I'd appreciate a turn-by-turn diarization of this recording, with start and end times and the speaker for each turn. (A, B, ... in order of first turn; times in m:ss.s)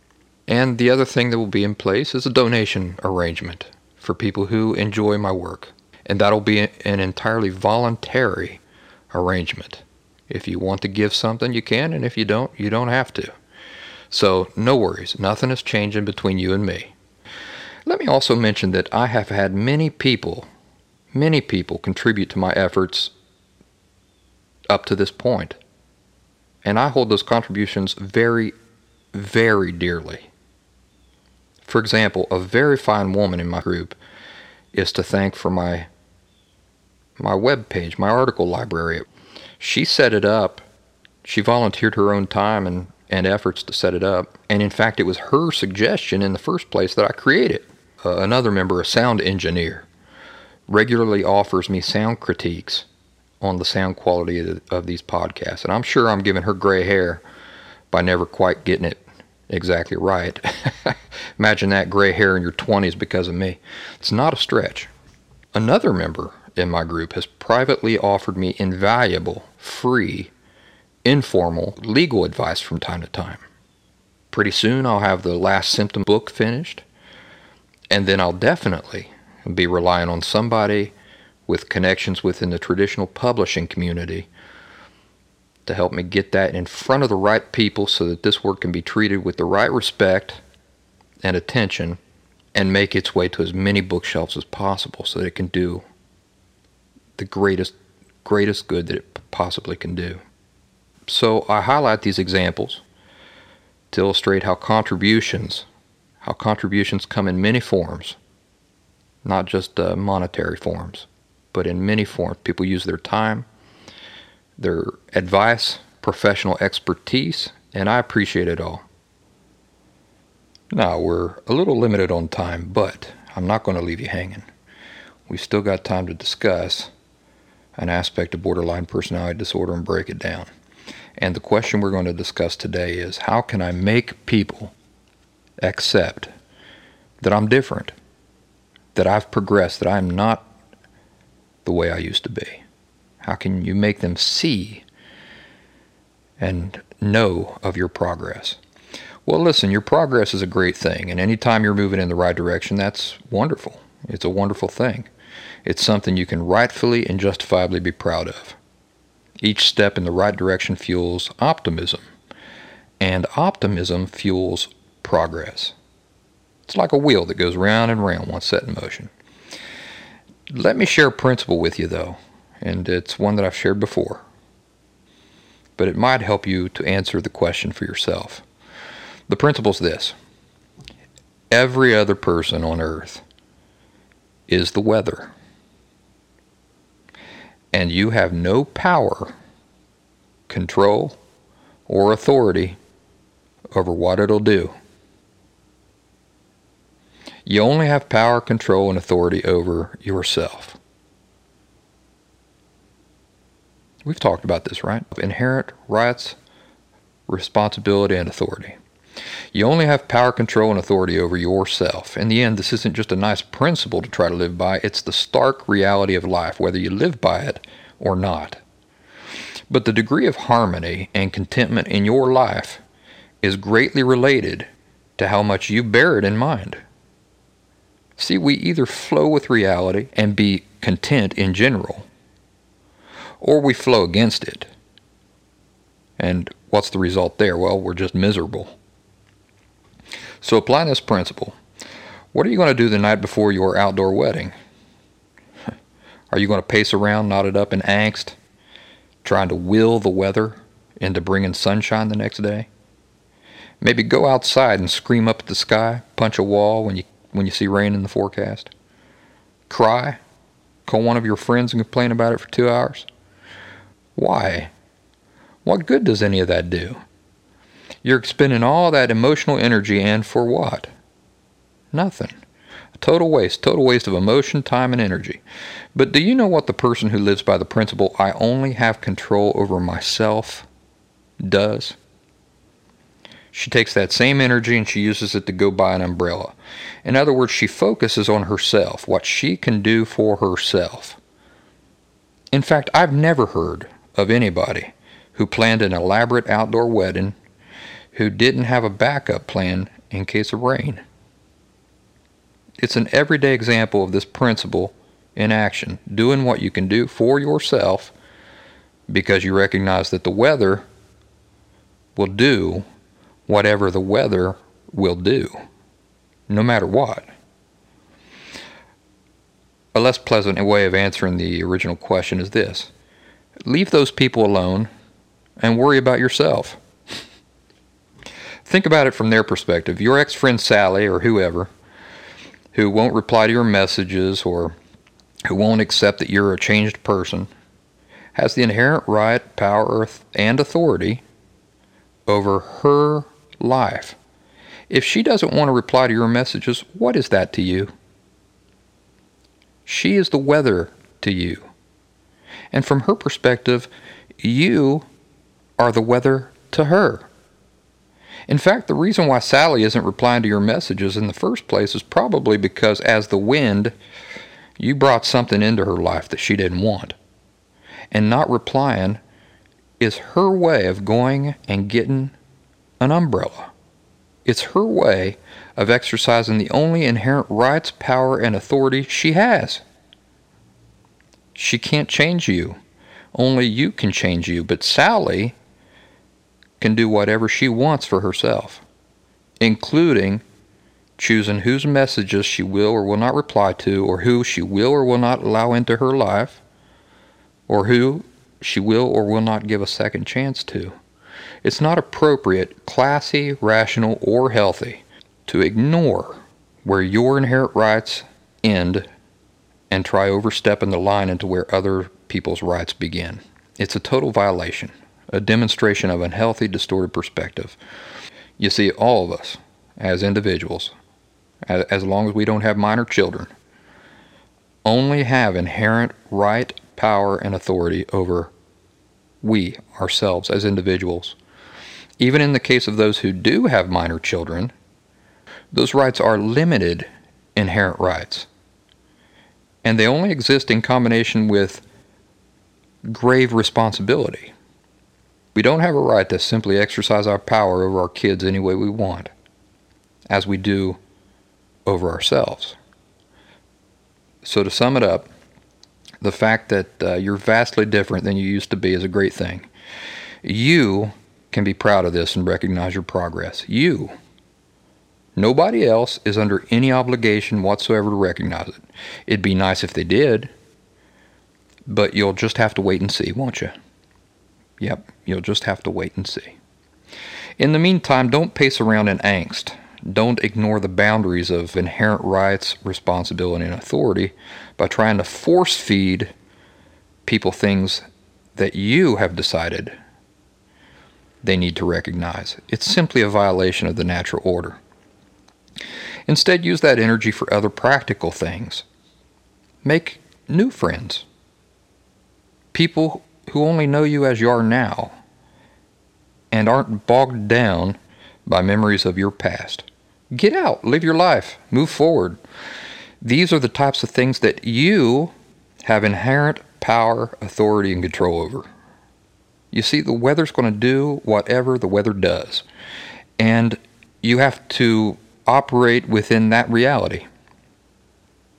0:00.5-0:08.6 A
0:09.1-0:13.3 A
0:14.1-0:16.9 A
0:17.9-0:20.5 A
0:21.1-0:23.1 A
0:24.7-0:25.6 A
0:26.6-0:28.6 A
0:29.1-0:30.3 A
0:31.6-0:34.0 A
0:34.7-0:35.9 A
0:37.2-0:39.1 A
0:39.6-0:40.6 A
0:41.2-0:49.9 A
0:50.7-0:52.9 A
0:53.4-0:57.2 A
0:57.9-1:04.9 A
1:05.5-1:10.3 A
1:11.0-1:13.4 A
1:14.3-1:16.8 A
1:17.9-1:20.9 A
1:21.5-1:24.3 A
1:25.7-1:30.4 A
1:31.2-1:32.0 A
1:32.6-1:35.8 A
1:37.2-1:37.7 A
1:38.2-1:40.2 A
1:41.1-1:42.8 A
1:43.9-1:45.7 A
1:46.2-1:48.2 A
1:49.2-1:53.5 A
1:54.6-1:58.8 A
2:00.7-2:04.5 A
2:05.3-2:06.9 A
2:07.8-2:10.5 A
2:11.2-2:14.7 A
2:15.6-2:16.3 A
2:17.2-2:17.9 A
2:19.0-2:20.5 A
2:21.6-2:22.6 A
2:23.2-2:24.8 A
2:26.4-2:28.6 A
2:29.3-2:35.1 A
2:35.6-2:38.6 A
2:39.4-2:42.0 A
2:43.0-2:45.8 A
2:46.7-2:49.1 A
2:50.5-2:54.2 A
2:55.8-2:58.4 A
2:59.3-3:00.2 A
3:01.5-3:03.2 A
3:04.5-3:05.3 A
3:07.7-3:09.4 A
3:10.5-3:11.2 A
3:11.9-3:12.8 A
3:13.7-3:14.7 A
3:17.5-3:20.8 A
3:24.0-3:26.4 A
3:27.3-3:28.8 A
3:29.5-3:38.6 A
3:39.7-3:42.8 A
3:43.4-3:46.8 A
3:48.2-3:52.1 A
3:53.4-3:54.7 A
3:56.2-3:58.8 A
4:00.4-4:01.6 A
4:02.3-4:04.5 A
4:06.3-4:08.4 A
4:09.2-4:12.7 A
4:13.8-4:18.7 A
4:19.7-4:20.2 A
4:20.9-4:23.1 A
4:24.2-4:24.7 A
4:25.6-4:27.0 A
4:28.0-4:30.9 A
4:31.9-4:32.4 A
4:33.0-4:35.4 A
4:36.0-4:40.7 A
4:41.4-4:42.0 A
4:43.5-4:51.2 A
4:52.5-4:57.4 A
4:58.1-5:01.0 A
5:02.8-5:08.1 A
5:09.1-5:10.9 A
5:12.2-5:12.9 A
5:13.5-5:15.6 A
5:16.5-5:17.3 A
5:20.0-5:22.9 A
5:23.6-5:24.9 A
5:25.6-5:26.8 A
5:28.7-5:31.7 A
5:32.7-5:34.8 A
5:35.5-5:37.5 A
5:38.4-5:41.2 A
5:42.3-5:44.2 A
5:44.9-5:47.9 A
5:49.9-5:51.7 A
5:52.7-5:53.9 A
5:54.4-5:55.1 A
5:55.8-5:57.3 A
5:58.5-6:03.9 A
6:04.8-6:07.2 A
6:08.1-6:09.2 A
6:10.0-6:12.4 A
6:13.0-6:13.7 A
6:14.4-6:19.8 A
6:21.6-6:22.8 A
6:23.3-6:25.6 A
6:26.8-6:28.8 A
6:29.6-6:30.4 A
6:31.2-6:36.6 A
6:37.7-6:41.0 A
6:41.6-6:49.1 A
6:49.9-6:57.8 A
6:58.6-7:00.9 A
7:01.7-7:03.5 A
7:04.8-7:08.5 A
7:09.4-7:11.4 A
7:12.2-7:14.7 A
7:15.7-7:18.5 A
7:19.8-7:21.8 A
7:23.1-7:24.5 A
7:25.6-7:29.3 A
7:30.3-7:31.0 A
7:31.9-7:32.8 A
7:34.4-7:35.3 A
7:36.2-7:39.7 A
7:40.4-7:44.1 A
7:45.4-7:50.5 A
7:51.9-7:53.8 A
7:54.8-7:56.6 A
7:57.6-8:06.3 A
8:07.3-8:08.0 A
8:08.6-8:10.0 A
8:11.4-8:14.8 A
8:16.3-8:18.8 A
8:19.8-8:21.3 A
8:22.7-8:25.2 A
8:26.5-8:32.4 A
8:33.2-8:35.3 A
8:35.8-8:38.7 A
8:39.7-8:42.7 A
8:43.4-8:47.3 A